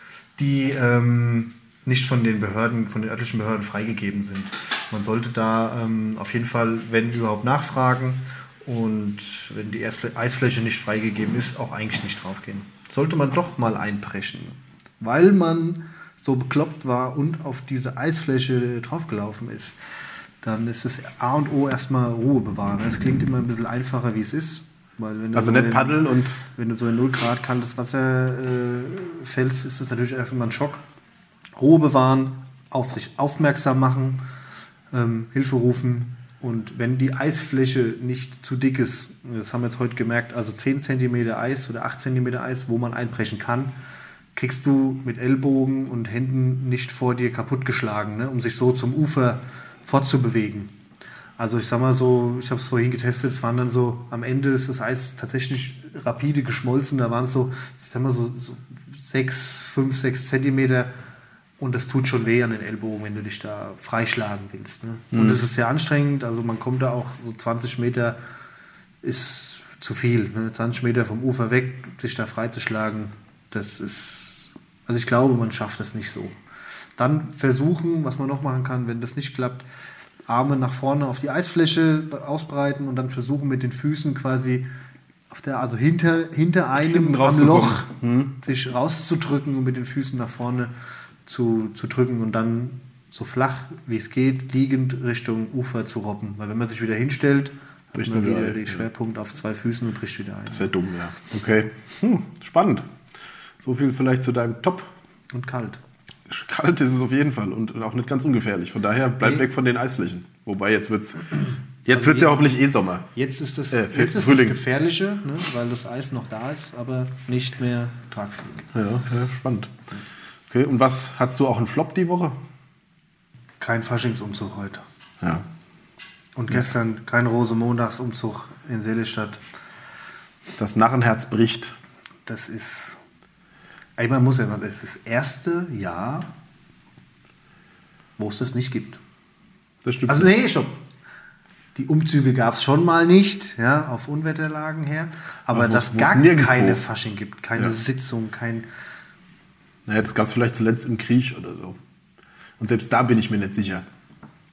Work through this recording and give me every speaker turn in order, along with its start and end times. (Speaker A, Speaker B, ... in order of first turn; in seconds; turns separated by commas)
Speaker A: 0.4-19.8, Speaker A: 20.4-30.8, Speaker B: 25.4-26.4, Speaker A: 31.6-34.2, Speaker A: 34.9-43.8, Speaker A: 44.4-50.7, Speaker A: 51.4-60.9, Speaker A: 61.6-68.2, Speaker B: 65.1-65.4, Speaker A: 69.0-76.4, Speaker A: 77.0-79.7, Speaker A: 80.3-84.7, Speaker A: 85.3-90.7, Speaker B: 86.8-88.3, Speaker A: 91.3-100.7, Speaker B: 98.0-98.8, Speaker B: 100.5-102.9, Speaker B: 103.6-104.9, Speaker A: 105.3-105.8, Speaker B: 106.3-113.1, Speaker A: 111.9-112.6, Speaker A: 113.1-118.7, Speaker B: 113.7-114.6, Speaker B: 118.7-119.7, Speaker B: 120.5-122.4, Speaker A: 123.6-124.8, Speaker B: 125.2-125.5, Speaker A: 126.4-129.4, Speaker B: 130.6-131.8, Speaker A: 132.3-133.0, Speaker A: 134.0-136.3, Speaker A: 138.2-139.0, Speaker B: 139.8-140.3, Speaker A: 140.1-140.8, Speaker A: 141.8-148.7, Speaker B: 145.5-146.8, Speaker B: 149.9-151.8, Speaker B: 152.6-153.8